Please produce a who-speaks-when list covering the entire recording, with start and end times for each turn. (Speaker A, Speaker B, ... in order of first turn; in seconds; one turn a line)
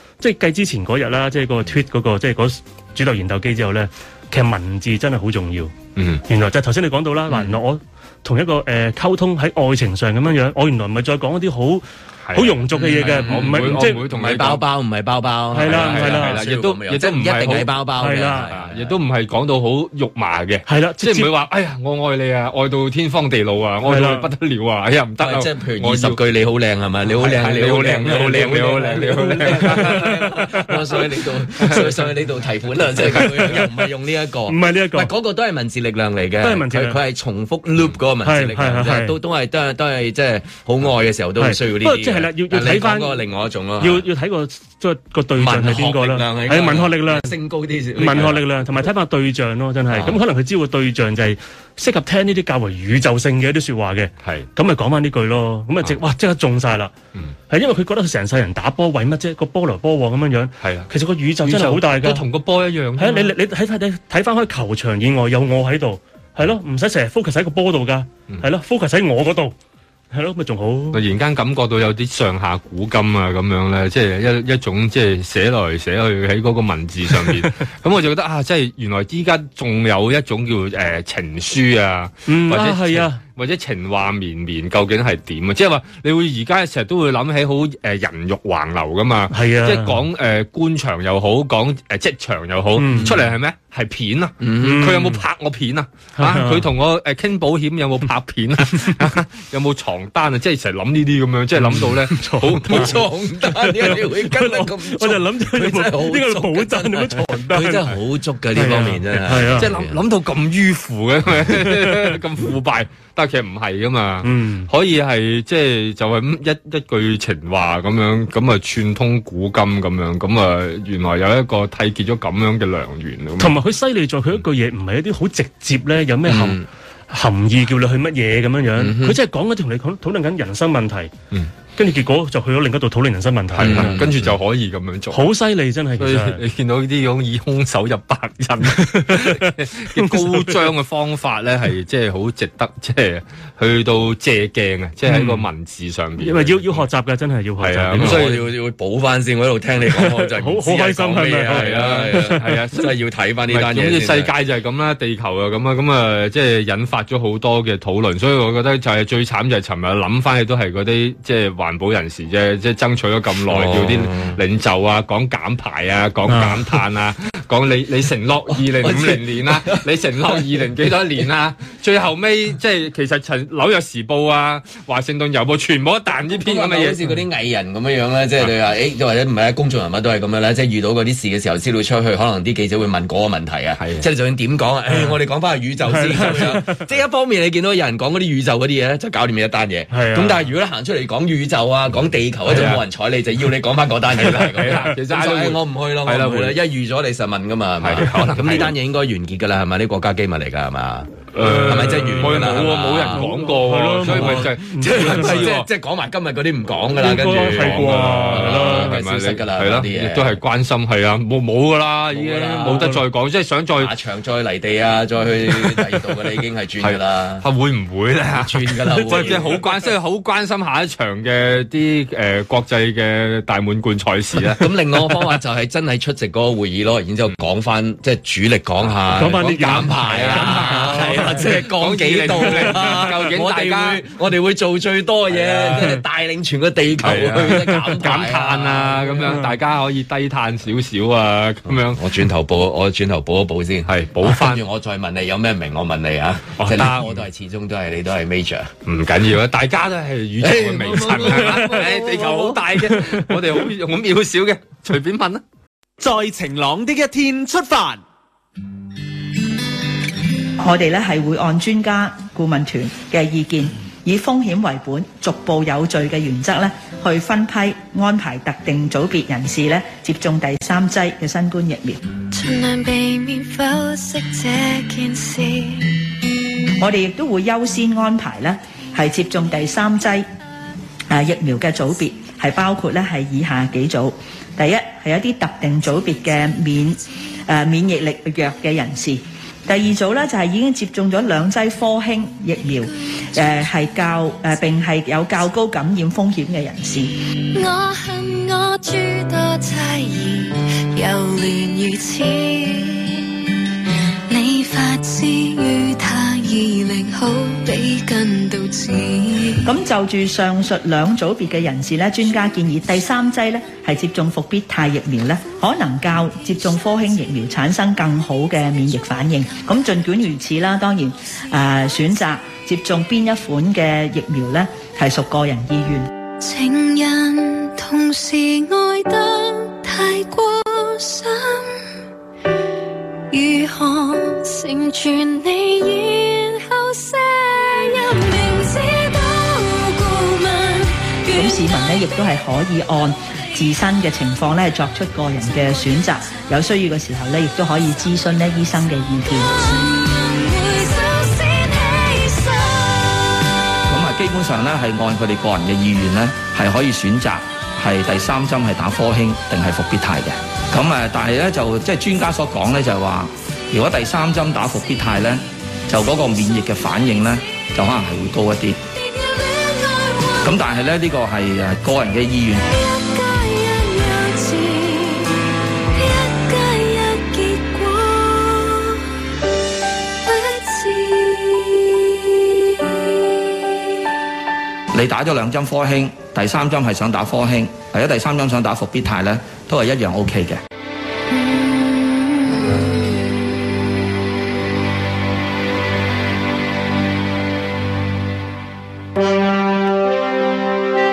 Speaker A: 0.2-5.8
Speaker B: 6.0-6.2
Speaker A: 6.3-14.0
Speaker B: 12.3-14.6
Speaker C: 12.9-19.0
Speaker A: 15.5-16.4
Speaker B: 15.6-17.7
Speaker A: 18.0-18.5
Speaker B: 18.5-26.2
Speaker A: 20.7-21.3
Speaker A: 23.9-24.3
Speaker C: 25.2-44.1
Speaker B: 27.2-30.1
Speaker A: 29.6-30.7
Speaker B: 31.6-32.0
Speaker B: 33.2-33.6
Speaker A: 34.5-35.1
Speaker A: 36.4-37.0
Speaker A: 38.2-39.1
Speaker A: 41.4-43.2
Speaker A: 43.8-47.3
Speaker C: 45.4-48.4
Speaker A: 48.0-56.9
Speaker A: 57.5-62.2
Speaker B: 60.6-60.9
Speaker B: 61.5-63.3
Speaker A: 63.0-69.5
Speaker A: 70.1-71.0
Speaker B: 70.9-103.1
Speaker A: 82.3-83.2
Speaker A: 89.3-90.0
Speaker A: 92.8-93.2
Speaker C: 92.9-93.2
Speaker C: 94.4-94.9
Speaker A: 94.6-95.2
Speaker A: 96.2-96.7
Speaker A: 101.6-107.9
Speaker C: 102.5-110.0
Speaker A: 108.5-109.7
Speaker B: 109.3-123.6
Speaker A: 111.7-112.2
Speaker A: 114.2-114.7
Speaker A: 123.4-126.6
Speaker C: 126.3-126.7
Speaker A: 127.1-131.1
Speaker C: 128.8-129.2
Speaker A: 131.8-134.1
Speaker B: 133.6-135.3
Speaker C: 133.6-134.1
Speaker A: 135.1-136.4
Speaker B: 136.0-146.9
Speaker A: 138.8-140.6
Speaker A: 145.1-145.5
Speaker A: 146.2-148.3
Speaker B: 147.6-148.4
Speaker C: 147.9-154.3
Speaker A: 150.3-152.6
Speaker B: 151.5-152.9
Speaker B: 153.5-177.0
Speaker C: 163.4-164.4
Speaker A: 166.3-166.8
Speaker C: 168.6-170.4
Speaker C: 176.3-203.3
Speaker B: 183.8-184.1
Speaker A: 185.8-186.8
Speaker A: 189.9-190.4
Speaker B: 192.5-192.8
Speaker B: 194.1-196.6
Speaker B: 197.8-198.7
Speaker B: 201.3-205.7
Speaker A: 201.4-205.6
Speaker C: 204.0-210.4
Speaker A: 207.0-209.0
Speaker B: 207.0-213.9
Speaker C: 212.1-212.9
Speaker A: 212.6-213.0
Speaker C: 213.8-217.4
Speaker B: 215.5-216.1
Speaker B: 216.8-224.8
Speaker C: 218.3-219.7
Speaker A: 218.9-219.6
Speaker C: 224.6-239.4
Speaker A: 229.2-231.6
Speaker B: 229.2-234.0
Speaker A: 232.5-233.0
Speaker B: 235.3-235.6
Speaker B: 237.0-242.1
Speaker C: 241.9-248.7
Speaker B: 243.9-244.6
Speaker B: 246.6-247.3
Speaker B: 248.9-255.4
Speaker C: 250.4-252.6
Speaker A: 251.4-251.8
Speaker D: 256.0-257.9
Speaker E: 260.6-272.0
Speaker F: 272.3-276.0
Speaker E: 276.8-280.2
Speaker E: 281.1-297.1
Speaker F: 297.5-303.4
Speaker F: 304.3-309.7
Speaker E: 309.6-326.1
Speaker F: 326.4-331.8
Speaker F: 333.3-341.9
Speaker E: 341.3-349.5
Speaker F: 349.4-353.5
Speaker G: 353.9-368.8
Speaker F: 368.9-370.5
Speaker G: 370.4-372.6
Speaker F: 372.6-379.1
Speaker F: 380.2-383.8
Speaker G: 384.9-390.6
Speaker F: 391.4-391.6
Speaker F: 392.2-392.9